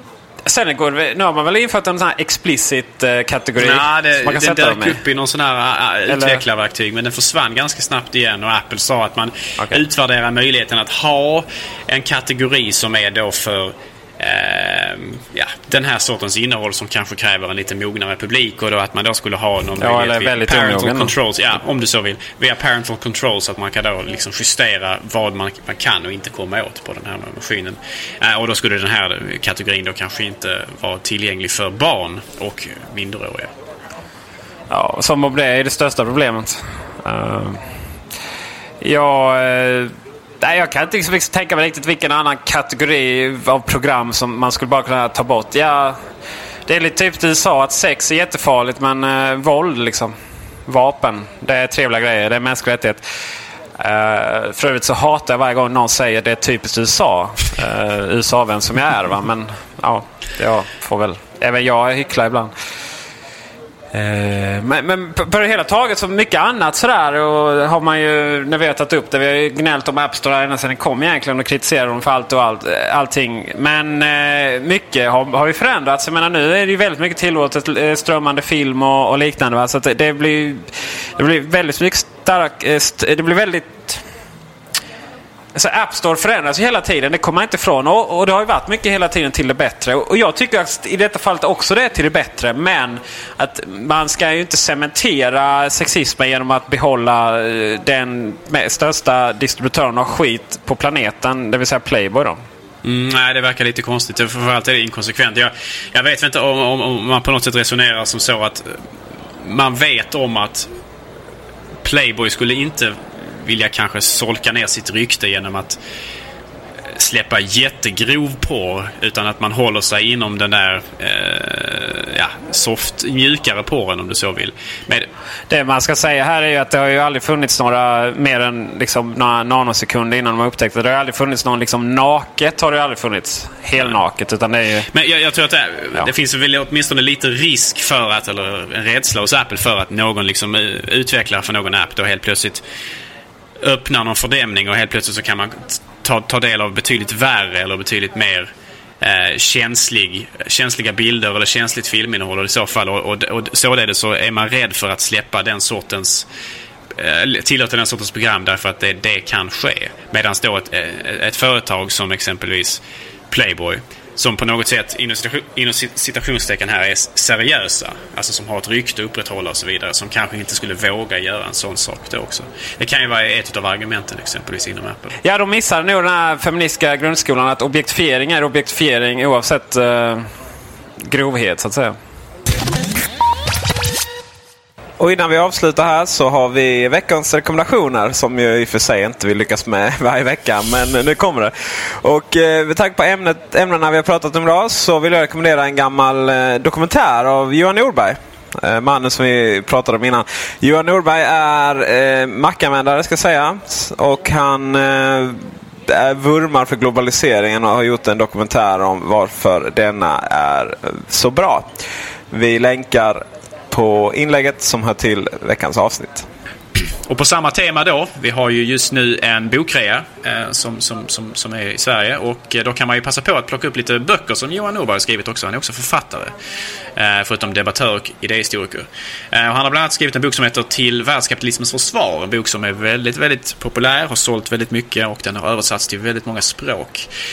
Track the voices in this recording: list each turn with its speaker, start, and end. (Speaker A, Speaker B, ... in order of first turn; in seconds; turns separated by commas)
Speaker A: 0.5-4.9, Speaker B: 2.1-2.6, Speaker C: 3.6-33.5, Speaker A: 6.1-6.4, Speaker A: 19.8-21.1, Speaker A: 34.7-37.6, Speaker A: 38.8-39.9, Speaker A: 40.4-46.0, Speaker A: 46.7-50.1, Speaker A: 50.7-53.0, Speaker A: 53.8-62.5, Speaker A: 63.9-80.6, Speaker B: 64.6-67.6, Speaker A: 81.2-83.9, Speaker B: 83.0-83.9, Speaker A: 85.6-102.4, Speaker B: 85.6-86.4, Speaker B: 90.5-92.5, Speaker C: 102.8-108.8, Speaker C: 109.4-110.7, Speaker C: 111.8-115.8, Speaker C: 116.9-125.1, Speaker A: 125.5-134.9, Speaker C: 134.9-142.6, Speaker C: 143.6-156.3, Speaker C: 156.9-175.2, Speaker B: 175.3-180.0, Speaker A: 176.1-180.2, Speaker A: 181.1-181.9, Speaker B: 181.3-181.7, Speaker B: 185.0-191.5, Speaker B: 192.0-205.4, Speaker B: 205.9-211.7, Speaker B: 212.3-213.2, Speaker B: 213.7-216.2, Speaker C: 217.1-226.3, Speaker C: 227.0-237.1